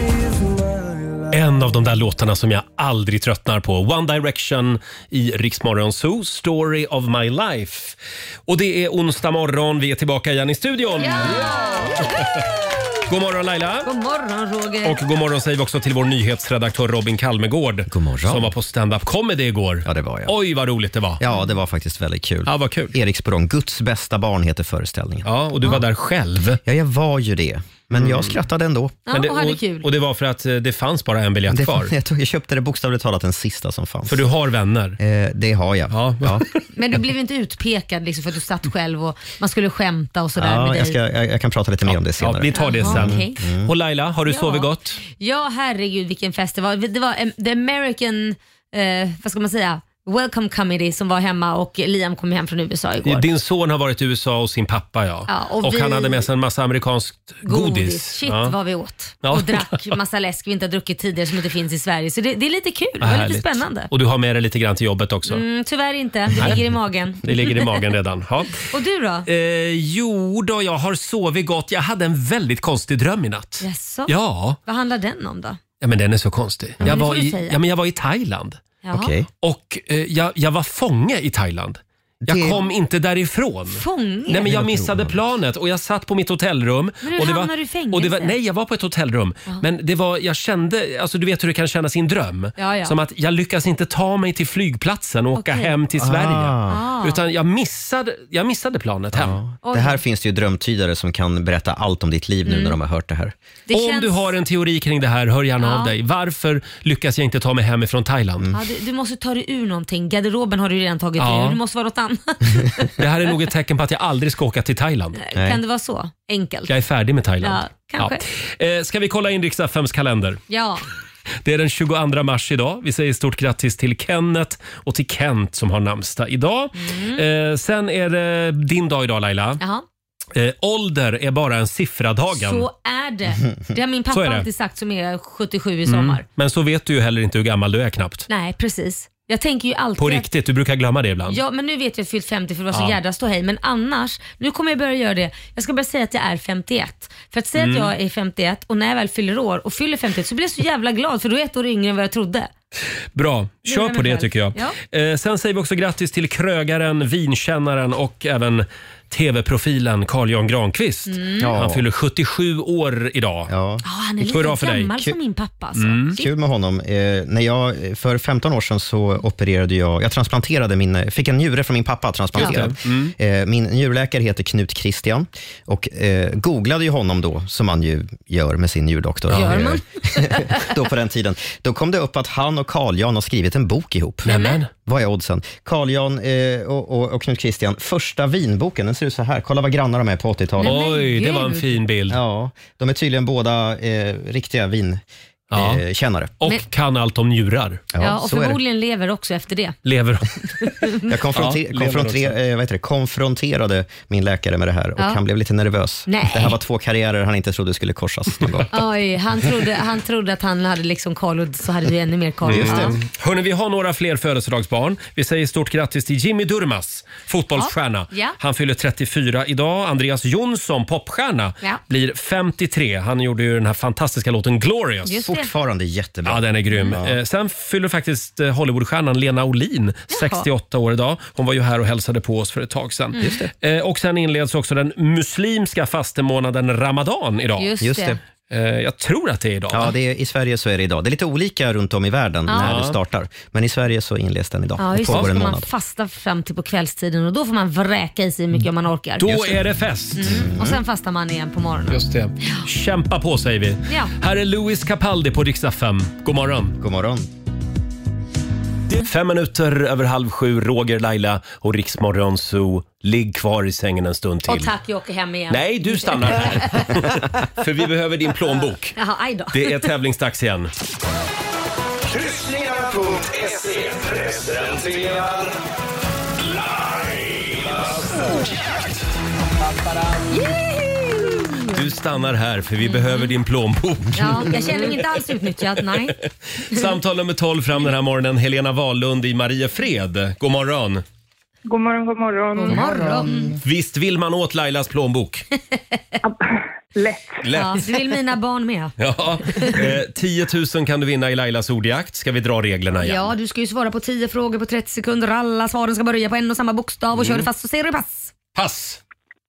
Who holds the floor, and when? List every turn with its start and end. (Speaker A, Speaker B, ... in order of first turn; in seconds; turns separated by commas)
Speaker A: 1.3-12.2, Speaker B: 11.0-12.2, Speaker A: 13.1-13.9, Speaker B: 13.8-15.0, Speaker A: 14.8-21.2, Speaker C: 17.9-18.5, Speaker C: 19.8-20.3, Speaker C: 21.2-25.7, Speaker A: 22.4-22.9, Speaker A: 25.2-26.6, Speaker C: 26.6-29.0, Speaker A: 27.9-28.3, Speaker B: 29.1-29.9, Speaker A: 29.1-31.9, Speaker C: 31.5-34.3, Speaker A: 34.1-35.0, Speaker C: 35.0-36.5, Speaker A: 35.9-36.6, Speaker B: 36.7-41.0, Speaker C: 40.4-43.7, Speaker A: 41.9-45.0, Speaker B: 42.5-43.4, Speaker B: 44.3-53.3, Speaker A: 53.0-58.5, Speaker B: 55.3-56.3, Speaker B: 57.5-63.9, Speaker A: 59.2-60.0, Speaker A: 63.0-65.4, Speaker B: 65.3-67.5, Speaker A: 66.3-66.6, Speaker A: 67.2-68.7, Speaker B: 68.6-69.3, Speaker A: 69.3-74.6, Speaker B: 73.6-74.1, Speaker B: 74.7-75.6, Speaker A: 75.8-78.6, Speaker B: 76.8-77.6, Speaker B: 78.8-79.1, Speaker C: 78.9-79.3, Speaker A: 79.4-99.4, Speaker C: 82.2-82.6, Speaker B: 83.7-84.5, Speaker C: 84.5-85.2, Speaker B: 87.0-88.3, Speaker B: 92.6-93.0, Speaker B: 95.3-95.8, Speaker C: 96.0-96.8, Speaker B: 96.7-97.2, Speaker C: 99.1-103.3, Speaker B: 99.6-100.0, Speaker B: 102.5-102.8, Speaker B: 103.7-104.2, Speaker A: 103.7-108.5, Speaker B: 105.6-105.9, Speaker B: 108.5-112.9, Speaker A: 111.2-111.6, Speaker A: 113.0-115.2, Speaker B: 115.2-116.7, Speaker A: 116.7-120.4, Speaker B: 117.4-118.2, Speaker B: 120.5-120.8, Speaker A: 121.4-129.6, Speaker B: 126.8-127.2, Speaker B: 129.6-129.8, Speaker A: 130.3-132.7, Speaker B: 132.3-136.2, Speaker A: 134.1-134.5, Speaker A: 135.9-138.3, Speaker B: 138.3-140.3, Speaker A: 140.0-141.4, Speaker B: 141.3-152.5, Speaker A: 142.7-143.0, Speaker A: 147.6-147.9, Speaker A: 153.2-163.5, Speaker B: 153.7-154.8, Speaker B: 161.1-161.5, Speaker C: 161.4-161.8, Speaker C: 163.5-163.8, Speaker B: 163.8-166.3, Speaker A: 164.2-165.0, Speaker A: 165.8-166.2, Speaker C: 166.2-184.3, Speaker A: 172.3-173.1, Speaker B: 172.4-172.6, Speaker A: 179.3-179.7, Speaker B: 179.3-180.6, Speaker A: 184.2-184.7, Speaker B: 184.2-184.6, Speaker C: 184.9-190.8, Speaker B: 190.6-191.8, Speaker A: 190.6-192.2, Speaker C: 192.1-195.0, Speaker A: 195.5-195.8, Speaker C: 195.5-196.3, Speaker A: 196.4-197.9, Speaker C: 197.9-198.6, Speaker B: 198.0-199.8, Speaker A: 199.8-200.4, Speaker B: 200.6-201.1, Speaker C: 201.1-208.7, Speaker A: 201.3-202.4, Speaker B: 206.1-206.5, Speaker B: 208.7-213.0, Speaker A: 212.5-225.3, Speaker C: 212.5-213.0, Speaker B: 217.6-218.4, Speaker B: 225.1-225.5, Speaker C: 225.3-227.2, Speaker A: 226.2-237.7, Speaker B: 230.1-230.5, Speaker C: 233.2-233.5, Speaker B: 237.6-238.2, Speaker C: 237.8-238.2, Speaker A: 238.5-239.9, Speaker C: 239.7-245.7, Speaker B: 242.5-242.8, Speaker A: 242.6-243.0, Speaker B: 244.8-249.6, Speaker A: 249.2-250.5, Speaker B: 250.2-252.7, Speaker C: 250.2-250.8, Speaker A: 251.9-256.8, Speaker B: 253.9-254.1, Speaker C: 256.8-257.2, Speaker A: 258.9-264.8, Speaker B: 264.5-266.9, Speaker A: 265.5-269.0, Speaker B: 269.0-269.9, Speaker A: 269.5-270.7, Speaker D: 272.1-275.5, Speaker D: 276.4-278.0, Speaker A: 281.7-285.0, Speaker B: 282.8-283.3, Speaker B: 284.1-286.2, Speaker A: 286.7-291.0, Speaker E: 291.7-292.8, Speaker B: 292.6-293.5, Speaker C: 292.8-293.6, Speaker A: 293.6-295.4, Speaker E: 296.2-297.4, Speaker A: 297.4-297.8, Speaker B: 297.5-299.0, Speaker A: 299.0-303.3, Speaker B: 299.5-299.8, Speaker B: 303.0-308.3, Speaker A: 307.1-307.5, Speaker A: 308.6-309.0